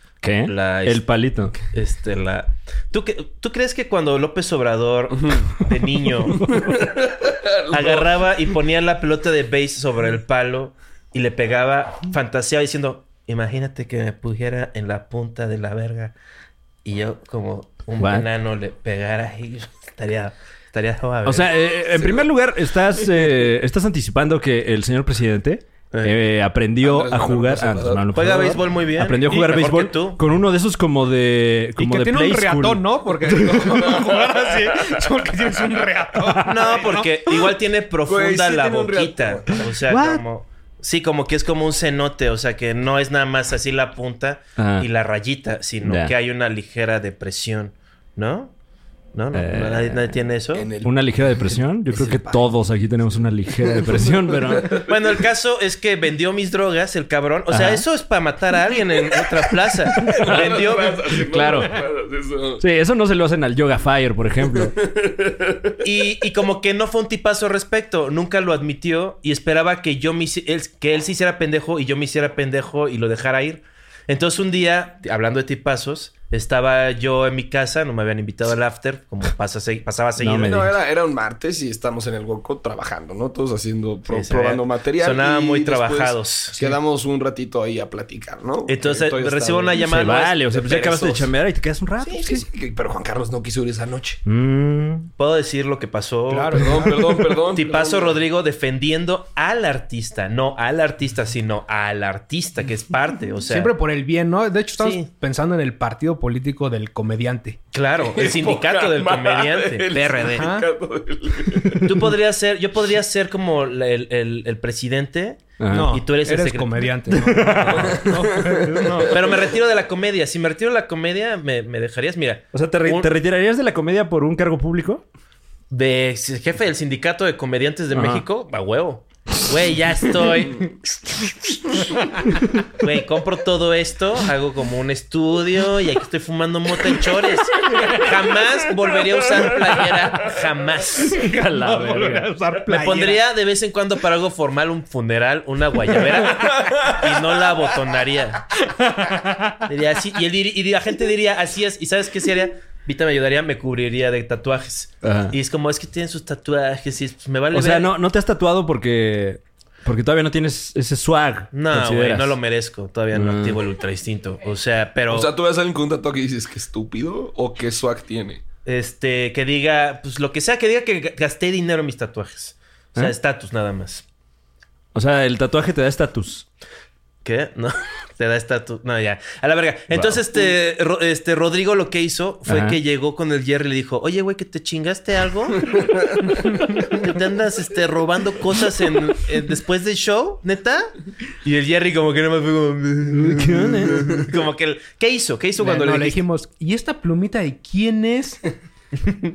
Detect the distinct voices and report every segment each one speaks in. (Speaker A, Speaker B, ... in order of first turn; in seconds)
Speaker A: 0.2-1.6, 18.0-18.3, 21.2-33.9, 39.9-40.2, 44.6-44.9, 45.8-46.1, 49.3-50.2, 50.8-54.8, 57.5-57.9, 61.2-61.8, 62.6-64.8, 80.2-80.7, 89.8-92.5, 94.3-95.1, 115.6-116.0, 117.1-118.0, 122.5-125.0, 127.9-128.2, 141.1-142.4, 155.0-155.3, 157.5-162.4, 163.1-163.6, 174.9-176.5, 179.9-180.2, 182.5-182.8, 193.1-194.2
Speaker B: 0.5-6.7, 7.7-16.1, 16.9-21.5, 28.1-30.2, 36.4-48.5, 49.1-50.7, 54.9-61.2, 65.8-80.6, 84.1-86.6, 88.7-91.2, 95.2-96.9, 97.5-103.7, 104.8-105.0, 107.7-110.5, 111.8-117.9, 119.1-123.1, 125.7-130.8, 132.7-141.2, 142.7-148.5, 149.7-157.9, 161.5-165.3, 168.7-174.0, 177.2-190.9, 191.4-196.2
Speaker C: 6.4-8.3, 26.8-28.3, 33.7-34.8, 38.1-39.6, 50.5-52.6, 53.6-55.2, 60.0-62.6, 64.5-65.8, 80.4-89.8, 90.5-91.2, 92.0-94.2, 96.5-98.2, 108.0-112.1, 117.6-119.2, 146.4-147.0, 165.1-168.4, 185.7-186.1
Speaker D: 31.8-37.1, 96.3-97.1, 103.5-107.6, 110.4-110.7, 115.7-119.2, 141.2-143.2, 148.9-149.6, 195.6-198.4